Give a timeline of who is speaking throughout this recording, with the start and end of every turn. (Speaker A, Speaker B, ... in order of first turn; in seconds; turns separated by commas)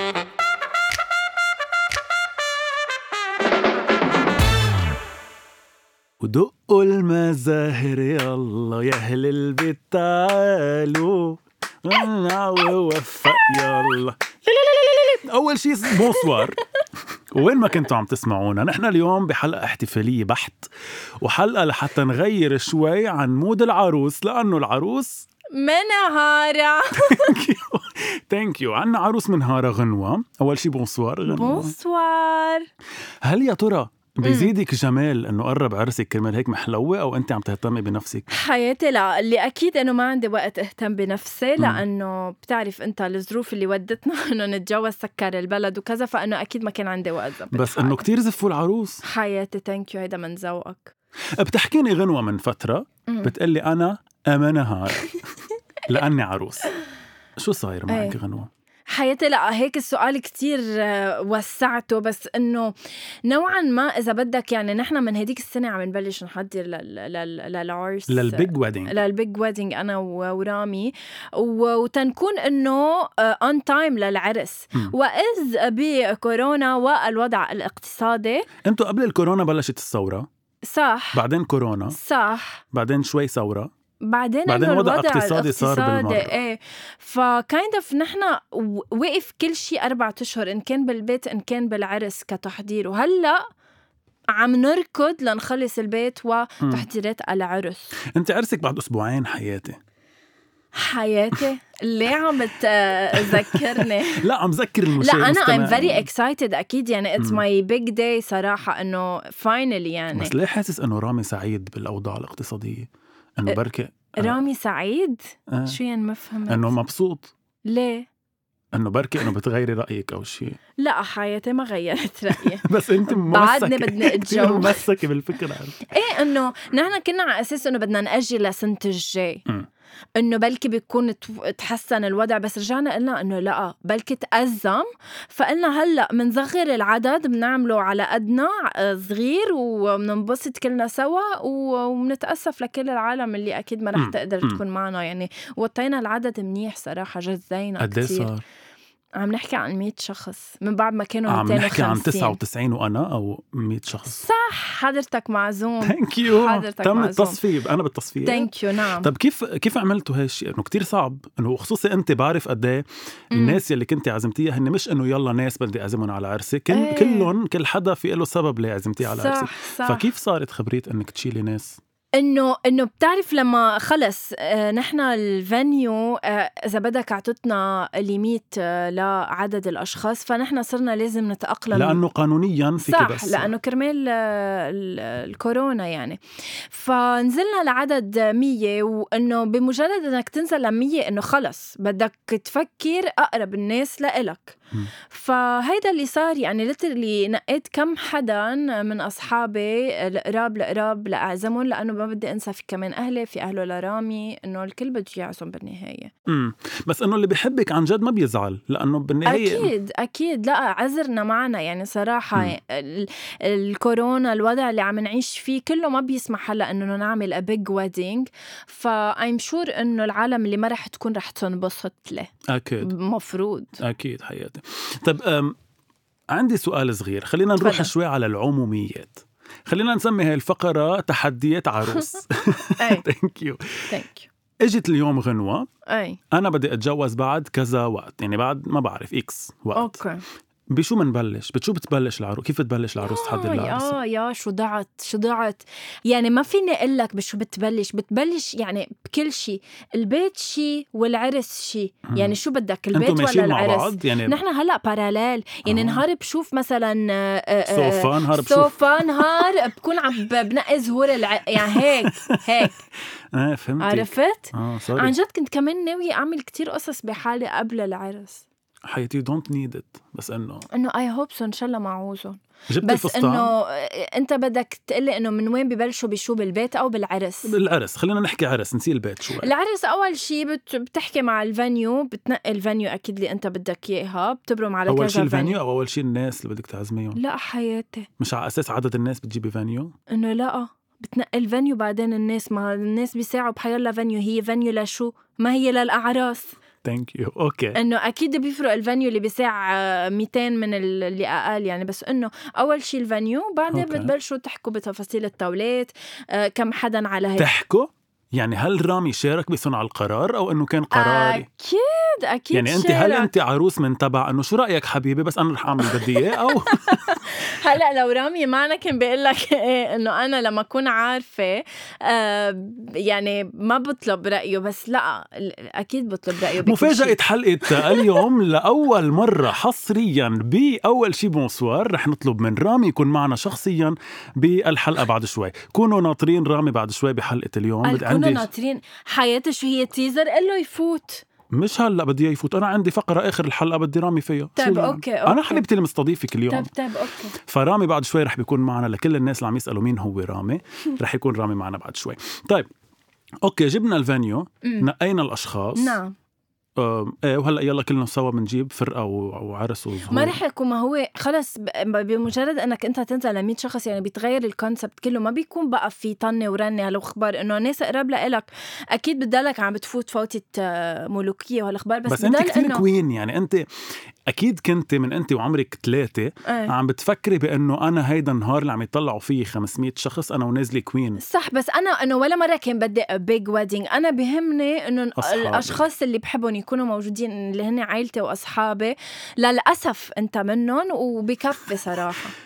Speaker A: 6.2-16.6, Speaker A: 17.3-20.7, Speaker A: 21.2-25.3, Speaker B: 25.5-27.3, Speaker A: 27.0-31.7, Speaker B: 31.3-32.7, Speaker A: 33.2-38.3, Speaker B: 34.2-34.5, Speaker B: 38.3-48.0, Speaker A: 41.6-41.8, Speaker A: 47.5-49.0, Speaker B: 49.0-50.9, Speaker A: 51.4-55.3, Speaker B: 53.1-53.3, Speaker A: 55.8-56.7, Speaker A: 57.4-58.5, Speaker B: 57.9-58.2, Speaker B: 58.9-78.5, Speaker A: 68.1-69.0, Speaker A: 78.7-80.3, Speaker B: 80.7-81.2, Speaker A: 81.1-82.0, Speaker B: 81.9-82.6, Speaker A: 82.7-83.7, Speaker B: 84.0-93.4, Speaker A: 84.5-86.3, Speaker B: 94.3-98.0, Speaker A: 98.1-99.8, Speaker B: 100.8-104.2, Speaker A: 103.2-106.1, Speaker B: 105.0-110.3, Speaker A: 110.1-114.4, Speaker B: 114.2-116.8, Speaker A: 115.5-115.8, Speaker A: 116.5-117.3, Speaker B: 117.7-118.1, Speaker A: 118.7-120.6, Speaker B: 120.8-124.8, Speaker A: 122.3-125.9, Speaker B: 125.9-129.4, Speaker B: 130.2-148.3, Speaker A: 143.9-144.6, Speaker A: 147.8-148.4, Speaker B: 149.2-152.4, Speaker A: 151.3-154.2, Speaker B: 154.1-157.4, Speaker A: 155.8-171.8, Speaker B: 158.2-159.1, Speaker B: 163.3-163.6, Speaker B: 166.7-167.3, Speaker B: 169.0-170.0, Speaker B: 172.2-182.0, Speaker A: 181.7-183.5, Speaker B: 182.8-186.2, Speaker B: 186.7-206.1, Speaker A: 206.3-209.7, Speaker B: 209.3-222.3, Speaker A: 222.5-222.9, Speaker B: 222.8-223.8, Speaker A: 223.8-225.6, Speaker A: 226.3-233.9, Speaker B: 227.6-227.9, Speaker B: 231.9-232.2, Speaker B: 232.8-233.1, Speaker B: 233.9-234.3, Speaker A: 234.6-235.7, Speaker B: 235.9-236.2, Speaker A: 236.3-240.0, Speaker B: 239.8-240.2, Speaker A: 240.7-244.0, Speaker B: 243.0-262.8, Speaker A: 252.1-252.4, Speaker A: 252.9-254.4, Speaker A: 255.7-256.0, Speaker A: 257.7-259.4, Speaker A: 261.6-262.7, Speaker A: 263.3-265.1, Speaker B: 263.8-268.4, Speaker A: 268.9-270.7, Speaker B: 270.7-277.5, Speaker A: 272.7-273.5, Speaker A: 277.4-279.5, Speaker B: 279.4-285.6, Speaker A: 284.9-287.2, Speaker B: 287.1-288.1, Speaker A: 288.2-289.9, Speaker B: 290.1-296.6, Speaker A: 296.8-297.8, Speaker B: 297.8-307.5, Speaker A: 303.7-304.1, Speaker A: 307.4-311.5, Speaker B: 310.9-313.3, Speaker A: 312.5-317.2, Speaker B: 315.8-327.2, Speaker A: 326.6-338.5, Speaker B: 327.7-328.2, Speaker B: 337.8-341.2, Speaker A: 341.6-346.7, Speaker B: 344.6-345.6, Speaker B: 346.5-347.4, Speaker A: 347.4-352.7, Speaker A: 353.4-356.0, Speaker B: 355.8-356.1, Speaker A: 356.8-360.4, Speaker B: 360.1-372.8, Speaker A: 372.1-373.6, Speaker A: 374.3-381.2, Speaker B: 376.5-376.7, Speaker B: 381.2-392.4, Speaker A: 385.2-385.8